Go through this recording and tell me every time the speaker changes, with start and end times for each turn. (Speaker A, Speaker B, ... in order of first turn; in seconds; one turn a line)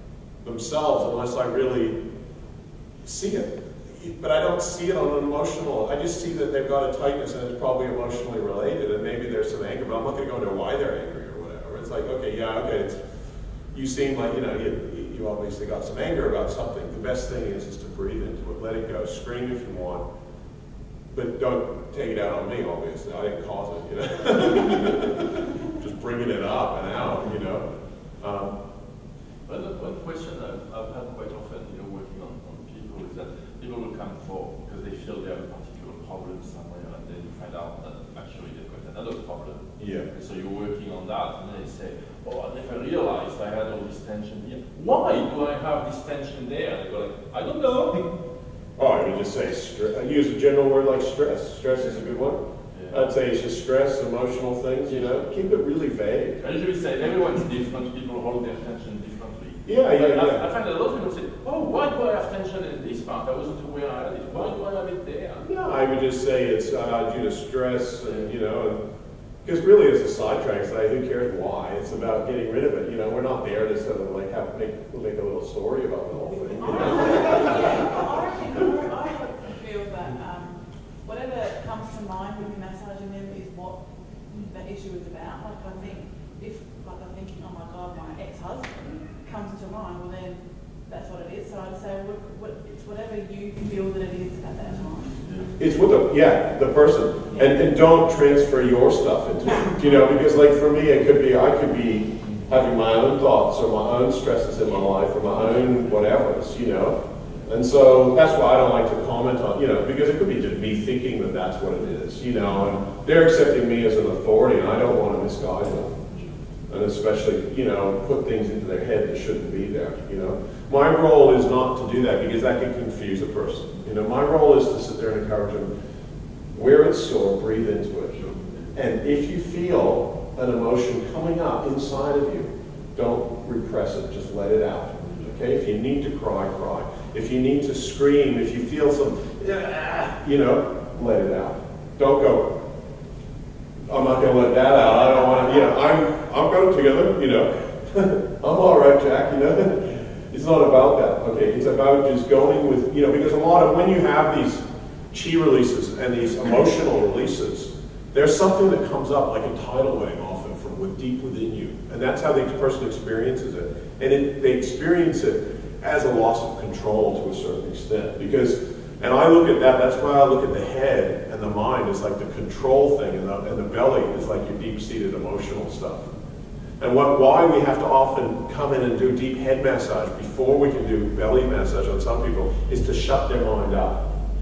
Speaker A: 0.4-2.0
Speaker A: 3.0-13.0
Speaker A: 13.7-20.0
Speaker A: 21.1-27.7
Speaker A: 28.2-28.5
Speaker B: 29.4-48.0
Speaker A: 39.8-40.1
Speaker A: 48.8-56.4
Speaker B: 52.7-53.0
Speaker B: 54.8-55.5
Speaker B: 56.4-65.5
Speaker A: 59.6-60.4
Speaker A: 65.4-68.8
Speaker B: 68.0-68.3
Speaker A: 69.4-77.8
Speaker C: 76.3-83.8
Speaker C: 84.4-95.2
Speaker B: 95.2-95.5
Speaker A: 95.6-116.0
Speaker B: 107.2-107.5
Speaker B: 112.4-112.6
Speaker A: 116.7-125.7
Speaker A: 126.5-142.5
Speaker B: 128.1-128.7
Speaker B: 135.0-135.3
Speaker A: 143.9-176.1
Speaker A: 176.8-184.0